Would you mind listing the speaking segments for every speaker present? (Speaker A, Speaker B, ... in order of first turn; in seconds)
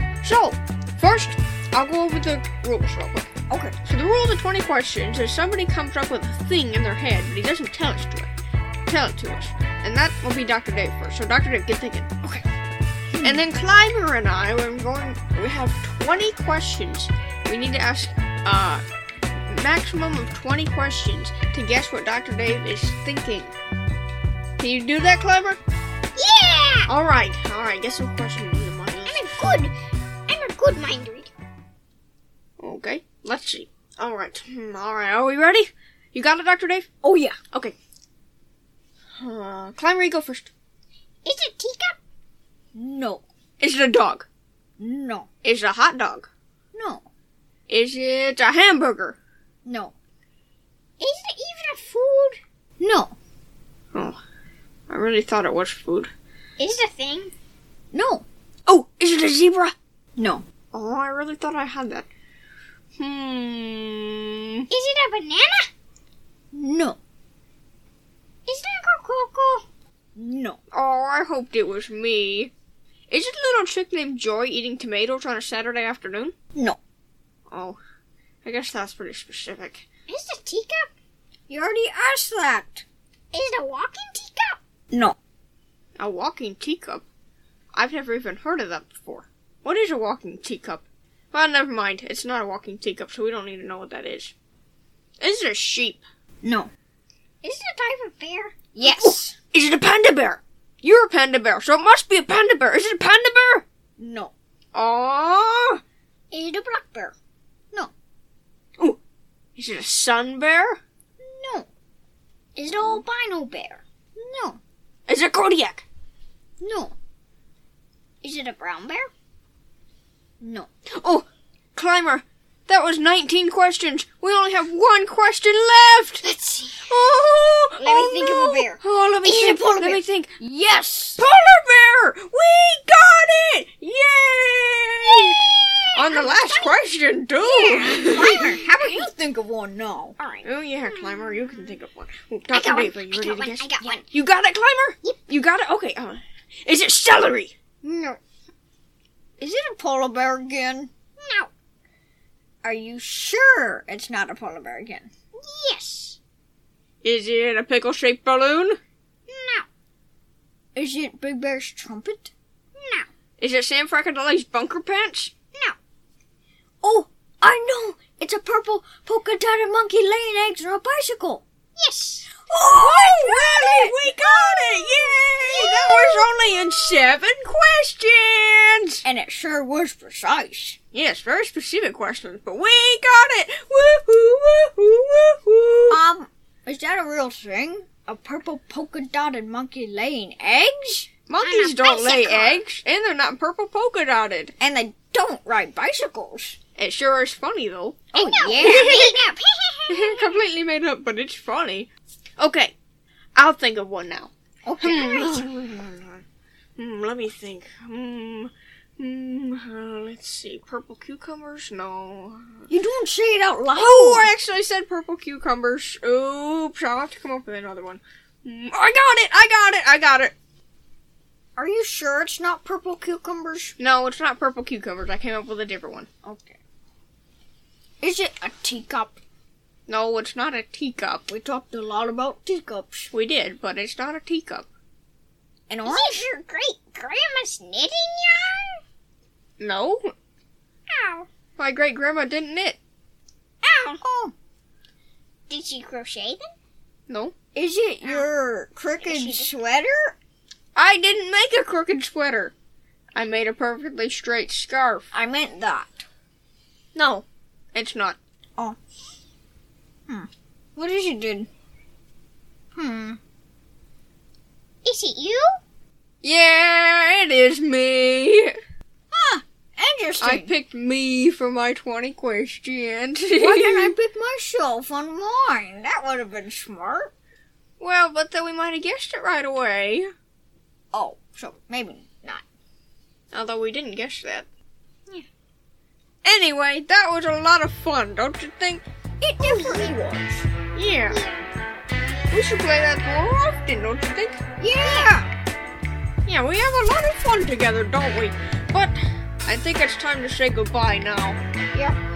Speaker A: 0.2-8.3, 8.9-12.4, 13.2-18.8, 19.4-23.5, 24.6-25.6, 26.9-29.2, 32.6-36.9, 39.2-40.5, 43.6-44.3, 45.4-46.3, 47.7-49.2, 53.9-54.2, 54.9-56.1, 58.7-59.7, 60.7-62.1, 63.0-64.7, 70.7-72.5, 73.1-76.3, 77.5-77.8, 78.4-79.8, 86.0-87.0, 87.7-94.3, 95.2-96.0, 98.8-103.6, 104.7-105.8, 109.5-110.8, 112.8-113.0, 115.1-115.8, 120.9-126.2, 126.9-130.4, 131.1-138.6, 140.4-147.5, 157.0-158.8, 163.4-165.3, 172.5-179.0, 180.9-186.0, 191.3-194.5, 196.8-199.3, 199.9-202.7, 203.3-206.2, 206.8-212.7, 213.7-220.3, 223.8-226.1, 229.9-231.2, 233.1-234.7, 239.6-240.1, 241.6-242.8, 247.1-247.3, 250.7-252.5, 253.1-255.1, 256.9-258.2, 266.2-268.5, 270.2-273.9, 277.8-280.1, 283.3-284.5, 286.2-288.8, 289.4-289.9, 290.7-291.2, 292.3-294.4, 296.2-301.4
Speaker B: 3.5-3.8, 13.1-13.4, 37.0-37.4, 42.7-43.2, 44.8-45.3, 46.7-47.1, 49.6-49.9, 52.8-53.1, 57.9-58.2, 60.2-60.4, 66.5-67.0, 70.1-70.6, 81.5-82.8, 84.9-85.2, 96.4-96.7, 98.1-99.3, 104.0-104.3, 106.3-107.2, 111.2-111.7, 112.6-114.6, 116.6-117.0, 118.2-119.1, 120.4-120.7, 127.8-131.2, 137.4-140.2, 147.8-148.2, 149.4-150.9, 152.6-155.1, 160.7-162.3, 166.8-171.4, 172.4-174.7, 175.4-176.3, 179.0-180.8, 185.9-191.1, 194.6-196.6, 198.1-199.1, 204.6-205.5, 212.7-214.3, 221.6-223.7, 226.2-226.6, 228.0-229.2, 231.3-233.1, 235.7-236.3, 243.9-244.3, 247.5-250.2, 255.1-256.1, 260.1-261.5, 262.7-263.2, 269.1-270.5, 273.3-277.1, 280.9-282.4, 289.2-290.5, 294.6-295.3
Speaker C: 26.1-26.9, 29.1-29.7, 30.3-31.3, 41.2-42.0, 51.0-52.4, 56.6-57.3, 64.7-65.7, 68.5-69.7, 80.1-80.9, 83.3-84.6, 97.4-98.6, 126.2-126.7, 136.1-136.6, 137.6-137.9, 138.7-139.1, 140.2-140.5, 142.5-144.0, 151.2-151.5, 155.4-156.2, 159.3-159.7, 162.8-163.1, 171.8-172.4, 191.4-192.6, 198.1-200.3, 235.8-238.8, 240.9-241.3, 243.6-244.0, 245.5-246.5, 249.0-249.5, 264.8-265.6, 289.6-289.9, 291.1-291.5, 294.8-295.1